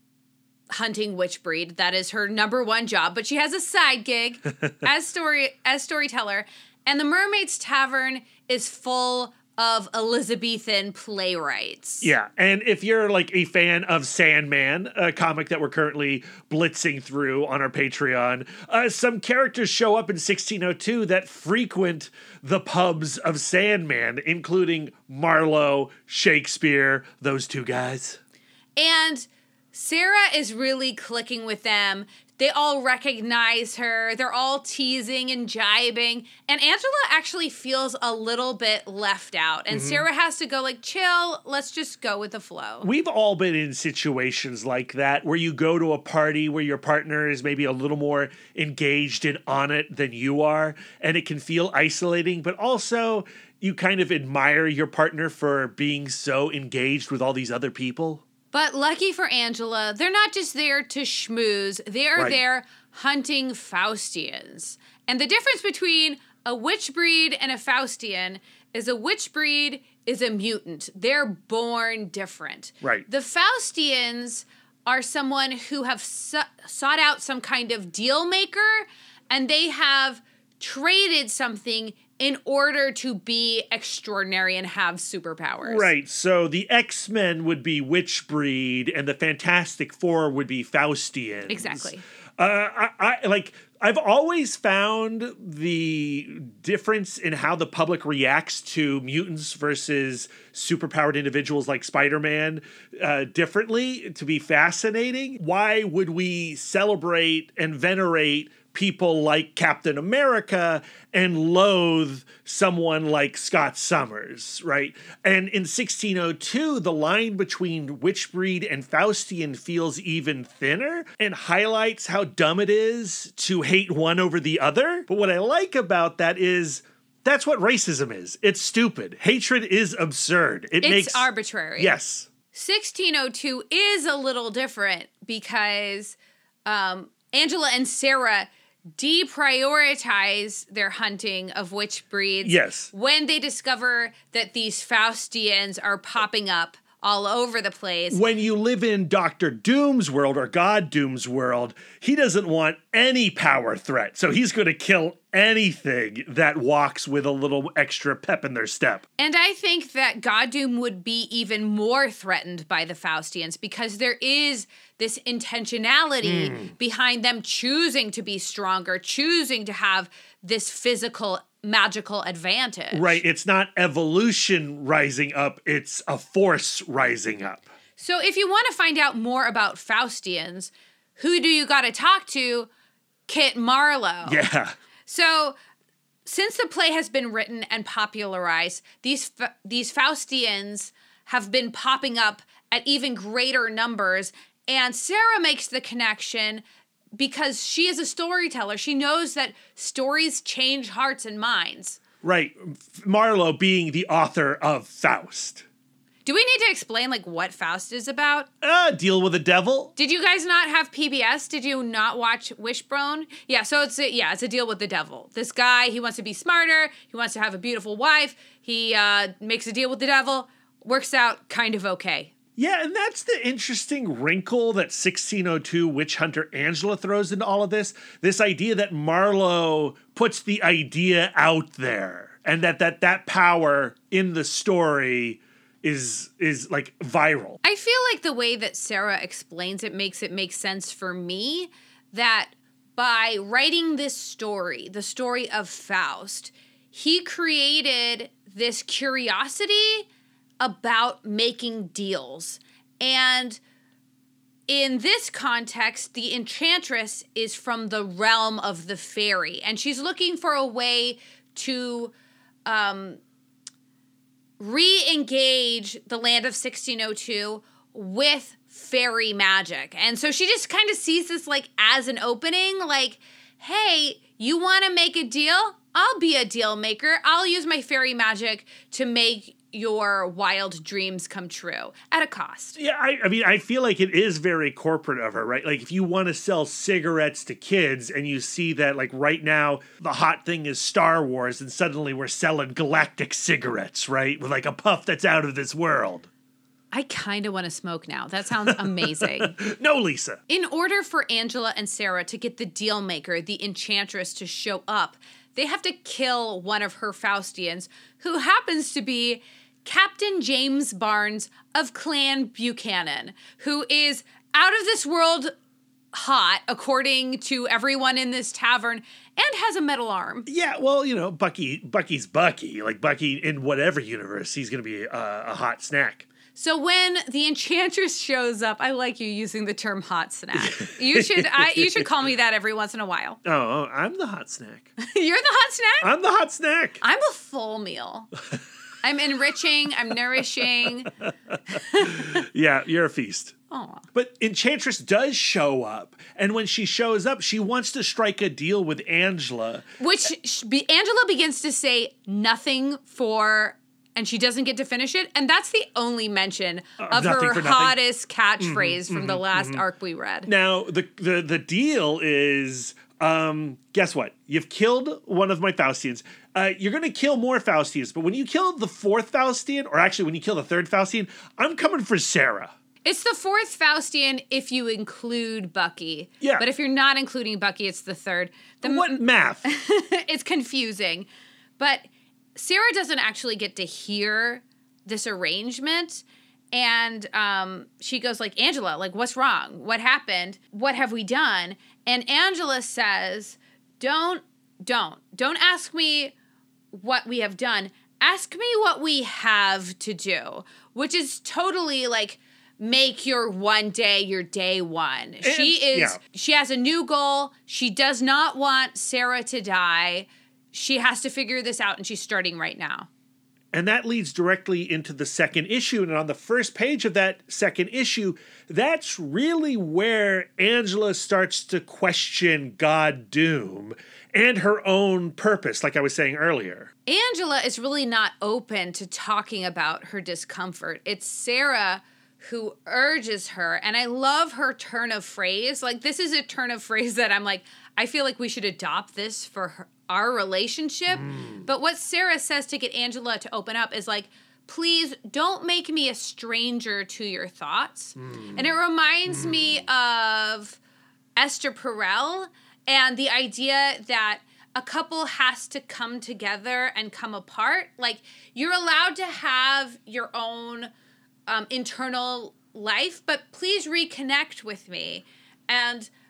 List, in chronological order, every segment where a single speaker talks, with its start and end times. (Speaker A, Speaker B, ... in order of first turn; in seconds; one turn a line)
Speaker A: 0.7-12.1
Speaker B: 12.0-28.2
Speaker A: 28.8-42.9
Speaker B: 39.7-40.1
Speaker B: 42.8-58.2
Speaker A: 58.5-85.9
Speaker B: 85.6-132.3
Speaker A: 91.5-92.0
Speaker A: 130.8-131.9
Speaker A: 132.5-148.2
Speaker B: 142.4-142.9
Speaker B: 148.1-159.0
Speaker A: 159.2-173.2
Speaker B: 166.2-166.7
Speaker B: 172.9-177.7
Speaker A: 178.0-182.7
Speaker A: 183.3-184.4
Speaker B: 184.2-184.7
Speaker A: 185.1-185.6
Speaker A: 186.2-196.6
Speaker A: 197.2-202.0
Speaker B: 202.2-205.6
Speaker A: 206.2-208.5
Speaker B: 208.6-209.9
Speaker A: 209.9-222.3
Speaker B: 222.6-237.6
Speaker A: 237.6-250.1
Speaker A: 250.6-253.6
Speaker A: 254.7-262.1
Speaker A: 262.6-263.2
Speaker A: 264.6-282.8
Speaker B: 282.8-296.3
Speaker A: 296.9-299.6
Speaker B: 298.6-300.4
Speaker A: 300.5-315.5
Speaker A: 316.1-320.5
Speaker B: 320.5-326.3
Speaker A: 326.5-333.4
Speaker B: 330.6-332.1
Speaker B: 333.4-334.9
Speaker A: 335.0-336.1
Speaker B: 336.0-337.0
Speaker A: 337.0-338.3
Speaker A: 339.0-341.1
Speaker B: 341.5-343.5
Speaker A: 341.7-342.4
Speaker A: 343.7-344.0
Speaker B: 344.1-349.8
Speaker A: 350.0-360.5
Speaker B: 357.0-358.0
Speaker B: 358.6-359.8
Speaker B: 360.4-372.7
Speaker A: 373.0-381.3
Speaker B: 378.8-379.6
Speaker A: 381.8-396.3
Speaker A: 396.9-413.1
Speaker B: 405.4-406.2
Speaker B: 413.7-426.9
Speaker A: 427.1-450.8
Speaker B: 441.1-441.6
Speaker B: 448.2-448.6
Speaker B: 449.3-449.8
Speaker A: 451.4-460.9
Speaker A: 461.5-466.1